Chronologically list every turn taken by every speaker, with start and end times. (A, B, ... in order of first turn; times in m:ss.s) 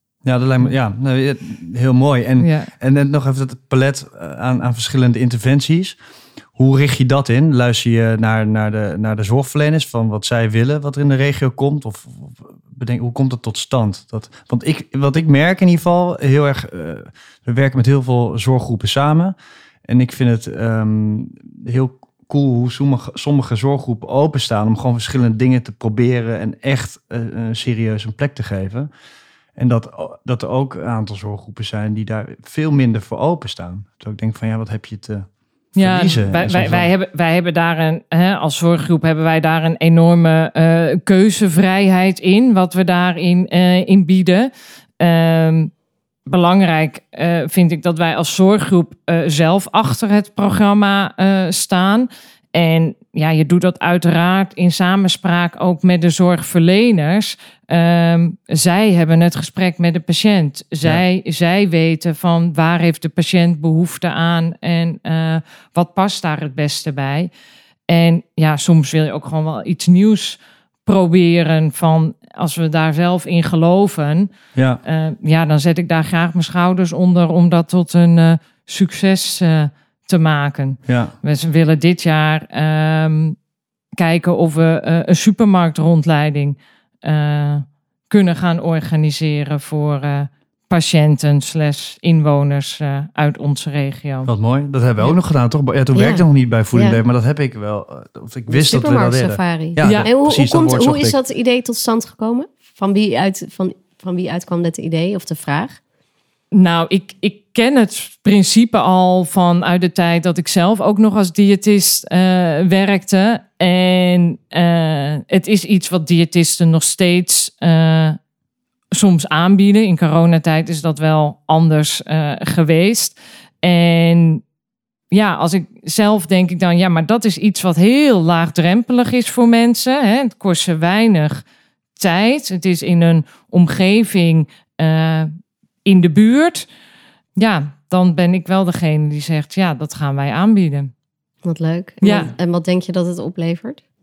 0:00.2-0:06.0 A
0:02.4-0:02.7 B
0:06.6-0:19.3 A
0:19.9-0:28.9 A
0:29.6-0:36.9 A
0:35.8-0:45.7 B
0:46.2-1:07.3 B
1:07.9-1:14.3 B
1:14.5-1:14.8 A
1:14.8-1:23.4 B
1:20.9-1:21.1 A
1:24.0-1:34.3 B
1:34.2-1:41.2 A
1:35.9-1:37.0 C
1:38.5-1:45.8 C
1:39.8-1:40.1 B
1:46.5-1:58.2 B
1:58.9-2:04.4 B
2:05.1-2:11.4 B
2:12.0-2:15.3 B
2:15.8-2:16.7 B
2:17.4-2:20.9 B
2:21.4-2:23.8 C
2:22.0-2:22.3 B